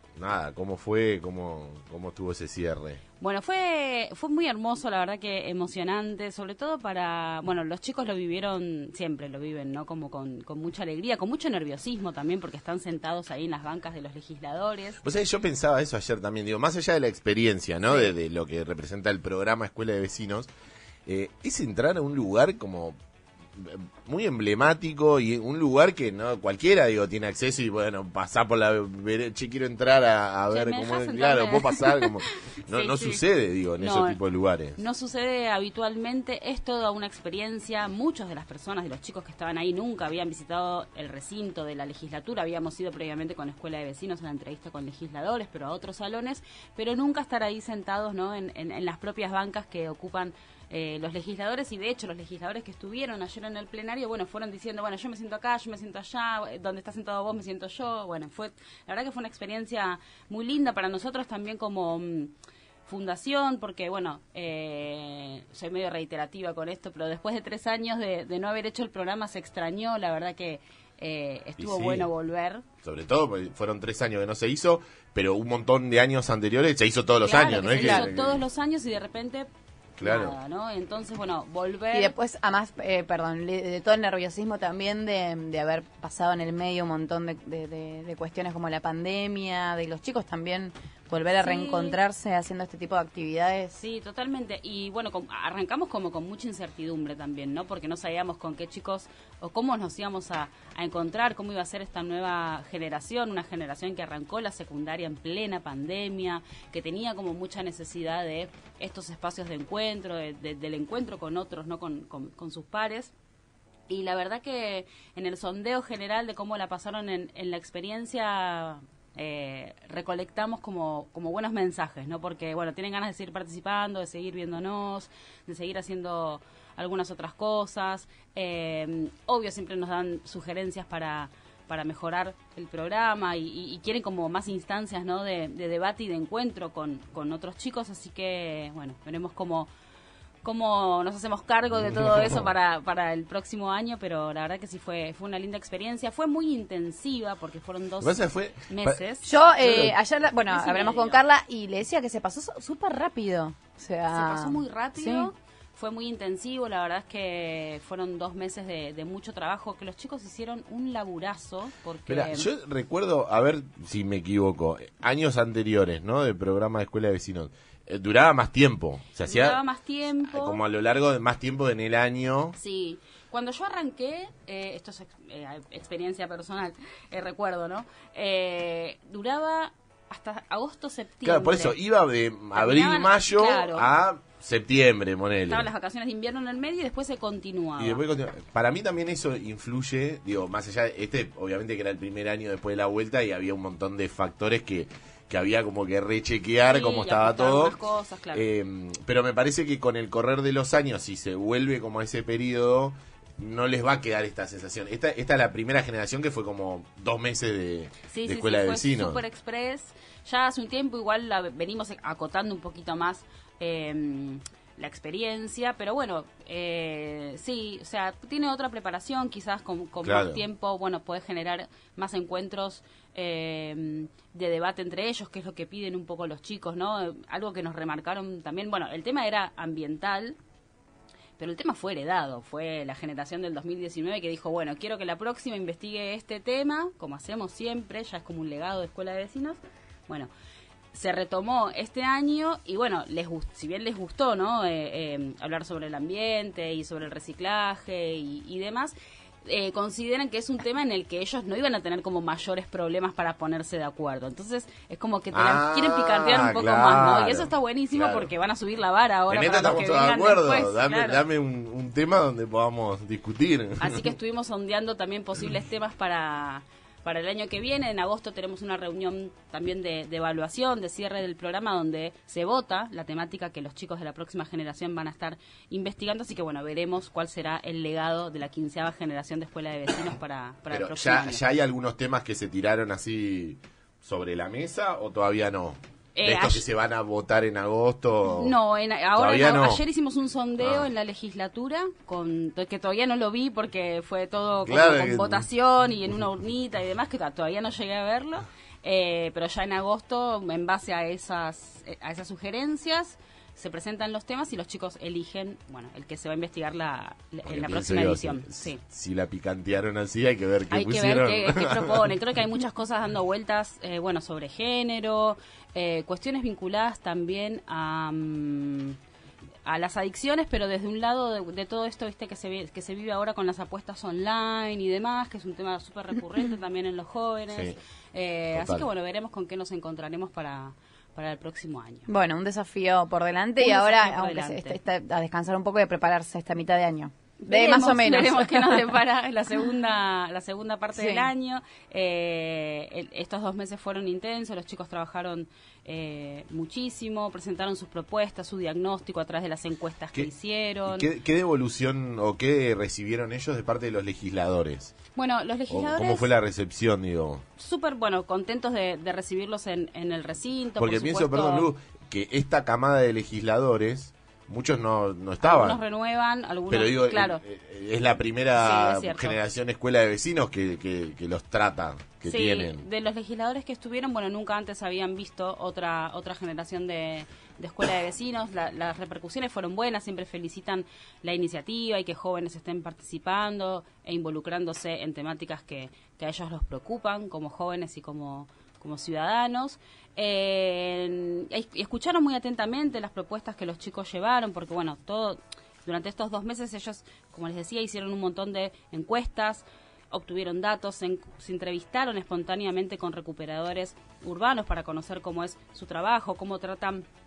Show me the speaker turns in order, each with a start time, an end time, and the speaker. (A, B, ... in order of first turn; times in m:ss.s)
0:00.2-0:03.0 A
0:03.2-0:15.0 B
0:15.0-0:20.5 A
0:17.9-0:18.1 B
0:21.1-0:23.0 A
0:23.6-0:34.8 A
0:30.5-0:33.2 B
0:33.8-0:34.2 B
0:34.8-1:02.3 B
1:02.9-1:12.6 B
1:11.6-1:12.1 A
1:12.8-1:18.4 A
1:17.2-1:19.5 B
1:17.7-1:18.1 C
1:20.0-1:20.4 A
1:20.0-1:22.2 B
1:21.9-1:33.8 C
1:31.3-1:32.0 B
1:33.8-1:53.1 B
1:53.9-2:19.7 B
2:20.4-2:29.3 B
2:21.7-2:22.5 A
2:28.0-2:29.0 A
2:29.2-2:35.3 C
2:29.6-2:30.0 A
2:30.4-2:31.2 B
2:34.1-2:42.5 B
2:42.1-2:49.6 A
2:49.3-2:50.6 B
2:50.2-2:52.6 A
2:52.6-3:01.8 B
3:01.2-3:05.7 A
3:02.5-3:03.9 B
3:05.5-3:08.0 B
3:07.8-3:17.8 A
3:16.6-3:18.5 B
3:18.3-3:29.2 A
3:28.1-3:50.4 B
3:40.0-3:40.4 A
3:51.4-4:00.3 B
4:00.9-4:08.9 B
4:09.4-4:21.2 B
4:15.3-4:18.3 A
4:19.3-4:24.1 A
4:23.8-4:41.4 B
4:40.7-4:48.6 A
4:46.2-4:46.6 B
4:48.3-5:08.8 B
4:49.2-4:49.8 A
4:50.6-4:50.9 A
4:54.6-4:55.5 A
5:07.4-5:12.1 A
5:10.7-5:19.0 B
5:19.7-5:32.1 B
5:27.5-5:27.8 A
5:28.5-5:28.9 A
5:32.1-5:38.9 C
5:33.6-5:34.8 B
5:37.4-5:51.1 B
5:40.9-5:41.3 C
5:50.8-5:55.0 A
5:55.2-5:56.3 B
5:55.7-5:57.4 A
5:57.6-6:01.7 B
6:00.8-6:05.8 A
6:05.4-6:07.4 B
6:06.7-6:12.8 A
6:08.6-6:09.4 B
6:12.2-6:47.0 B